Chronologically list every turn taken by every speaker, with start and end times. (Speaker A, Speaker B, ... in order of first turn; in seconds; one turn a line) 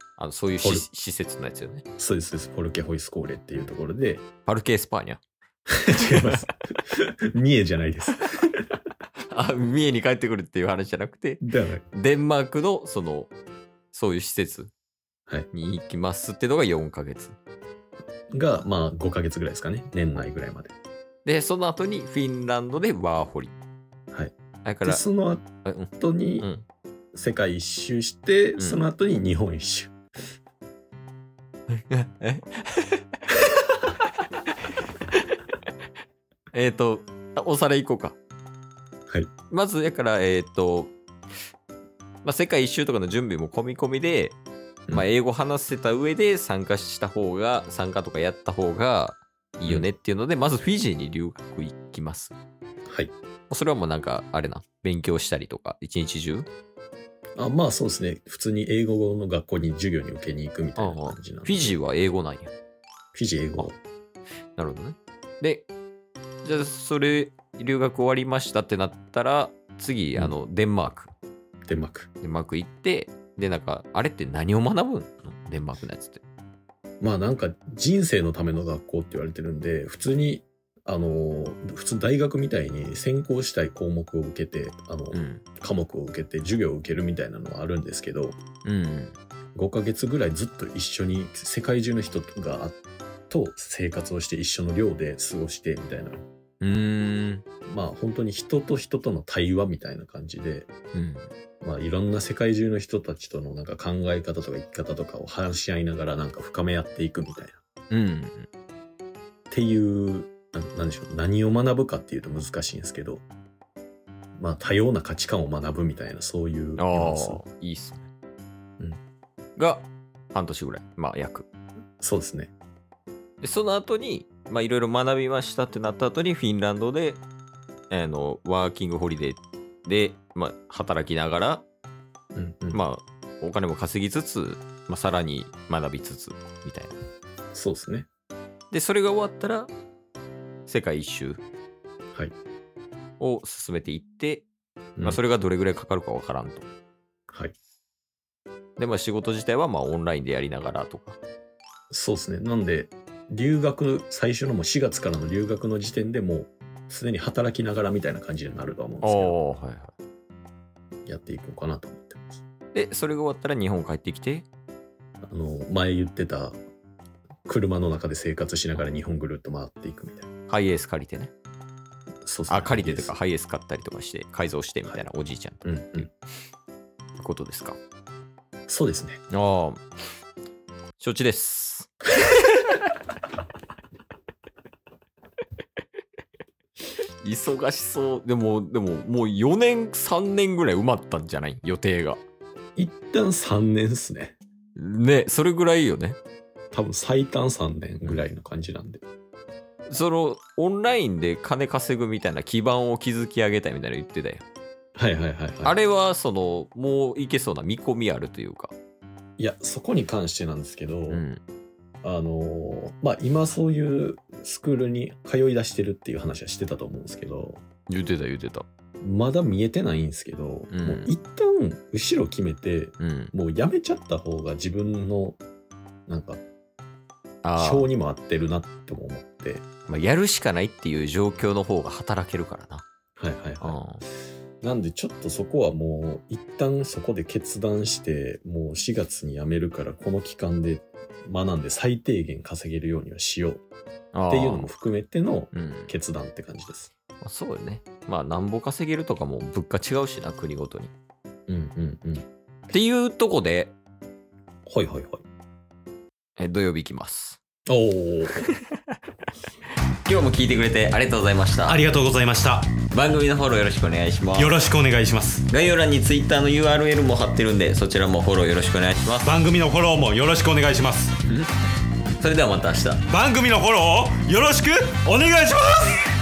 Speaker A: 0.2-1.8
Speaker B: 0.6-0.8
Speaker B: 2.0-4.2
Speaker A: 4.5-5.2
Speaker B: 5.8-8.5
Speaker A: 6.0-6.5
Speaker A: 9.3-13.3
Speaker B: 11.4-11.8
Speaker A: 13.9-14.7
Speaker A: 15.5-17.4
Speaker B: 18.3-20.7
Speaker A: 21.2-23.5
Speaker A: 24.6-25.0
Speaker B: 24.8-26.5
Speaker A: 25.6-26.6
Speaker B: 27.1-29.9
Speaker A: 31.7-33.0
Speaker A: 36.5-38.2
Speaker A: 39.5-40.9
Speaker A: 42.2-44.4
Speaker A: 44.9-52.3
Speaker B: 52.9-53.1
Speaker A: 53.5-56.5
Speaker B: 57.4-61.8
Speaker A: 60.8-62.5
Speaker B: 63.1-63.8
Speaker A: 64.5-65.7
Speaker A: 66.4-71.1
Speaker B: 71.7-72.1
Speaker A: 72.2-76.2
Speaker B: 77.0-88.4
Speaker A: 85.1-85.4
Speaker A: 88.6-89.2
Speaker B: 89.5-92.8
Speaker B: 93.3-96.2
Speaker A: 96.6-97.4
Speaker B: 97.7-100.7
Speaker A: 100.9-101.3
Speaker B: 101.6-107.6
Speaker A: 107.9-108.5
Speaker B: 109.5-113.2
Speaker B: 114.4-117.4
Speaker A: 116.8-118.1
Speaker A: 119.6-121.5
Speaker B: 122.0-122.5
Speaker A: 123.4-127.2
Speaker A: 127.9-131.6
Speaker B: 132.3-132.8
Speaker A: 132.7-136.9
Speaker B: 137.5-138.1
Speaker A: 138.7-139.7
Speaker A: 140.7-141.4
Speaker A: 143.2-144.4
Speaker A: 145.0-146.7
Speaker B: 147.3-147.5
Speaker A: 148.8-151.2
Speaker B: 151.9-159.4
Speaker A: 159.0-159.9
Speaker B: 161.1-162.4
Speaker A: 162.7-164.5
Speaker B: 165.2-166.6
Speaker B: 167.4-170.3
Speaker A: 170.5-171.3
Speaker B: 172.2-173.1
Speaker A: 172.5-176.1
Speaker B: 175.6-176.1
Speaker A: 177.2-177.8
Speaker B: 178.7-179.2
Speaker A: 179.3-179.8
Speaker A: 181.0-181.9
Speaker A: 187.2-192.2
Speaker B: 192.8-194.4
Speaker A: 194.8-196.2
Speaker B: 196.7-199.0
Speaker A: 199.9-204.4
Speaker B: 204.9-205.7
Speaker A: 205.6-208.7
Speaker B: 209.4-211.2
Speaker A: 211.1-211.4
Speaker B: 212.0-217.6
Speaker A: 217.9-218.7
Speaker B: 219.0-225.4
Speaker A: 220.7-221.1
Speaker A: 223.0-223.3
Speaker B: 226.1-226.4
Speaker A: 227.4-227.9
Speaker B: 227.6-229.6
Speaker A: 229.9-232.8
Speaker B: 233.2-233.8
Speaker A: 233.6-234.0
Speaker B: 234.6-243.6
Speaker A: 244.1-244.7
Speaker B: 244.3-246.9
Speaker A: 245.5-245.9
Speaker A: 247.2-250.9
Speaker B: 251.5-252.2
Speaker A: 252.7-253.7
Speaker B: 254.7-255.2
Speaker A: 256.4-257.4
Speaker B: 257.7-258.5
Speaker A: 260.0-261.9
Speaker C: 261.6-262.7
Speaker A: 262.9-264.6
Speaker C: 264.4-265.5
Speaker A: 265.5-269.3
Speaker C: 269.2-271.1
Speaker A: 272.2-273.0
Speaker C: 273.1-276.1